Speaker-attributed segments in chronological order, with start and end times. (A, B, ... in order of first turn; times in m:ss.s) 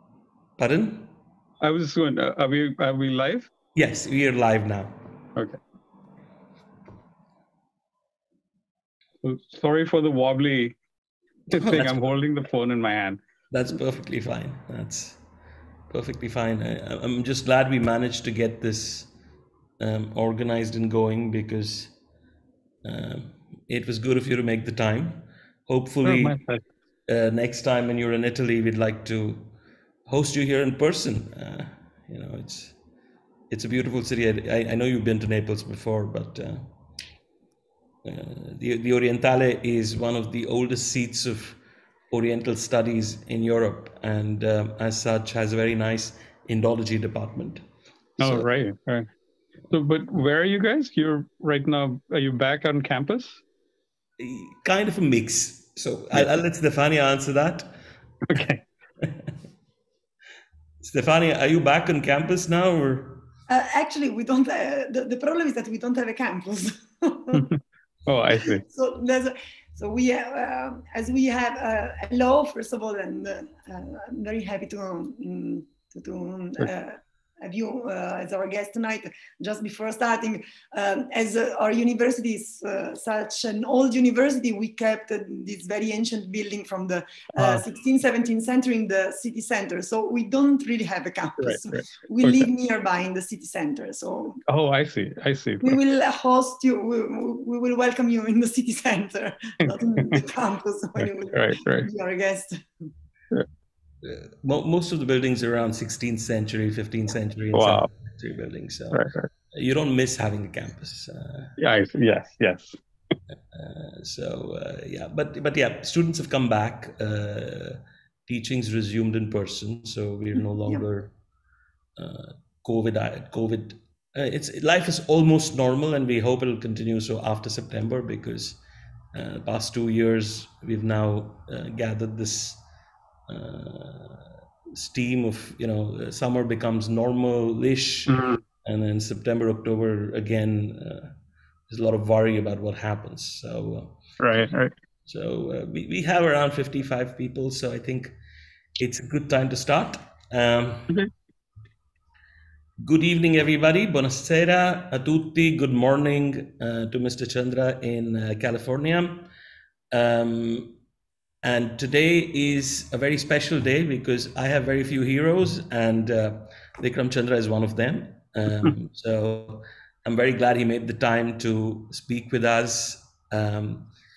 0:00.6-0:01.1 A
0:01.6-0:03.5 B
0:03.8-0:05.0 A
0:09.2-0:10.8 B
0:11.5-0:13.2 B
0:11.6-0:12.0 A
0:13.5-0:15.2 A
0:15.9-0:19.1 A
0:19.8-0:21.9 A
0:22.8-0:26.4 A
0:26.0-0:26.6 B
0:27.1-0:29.5 A
0:30.1-0:32.8 A
0:33.5-0:36.7 A
0:38.0-0:41.6 A
0:42.1-0:47.6 A
0:48.2-0:48.5 A
0:48.2-0:49.1 B
0:49.7-0:53.4 B
0:54.2-0:57.7 A
0:58.3-0:58.6 B
1:00.8-1:03.3 A
1:03.5-1:07.5 C
1:08.1-1:08.6 B
1:08.4-1:34.4 C
1:27.4-1:27.6 B
1:31.4-1:32.5 B
1:34.5-1:35.8 B
1:35.6-1:42.6 C
1:39.6-1:40.2 B
1:41.0-1:41.9 B
1:44.0-1:51.6 A
1:47.5-1:47.9 B
1:48.9-1:49.3 B
1:51.6-1:52.8 B
1:53.3-2:01.1 A
2:02.0-2:08.6 A
2:09.1-2:12.6 A
2:13.3-2:21.1 A
2:18.1-2:18.4 B
2:21.7-2:24.0 A
2:24.2-2:24.7 B
2:25.1-2:28.2 A
2:28.8-2:30.9 A
2:32.8-2:39.3 A
2:39.9-2:40.8 A
2:41.4-2:53.9 A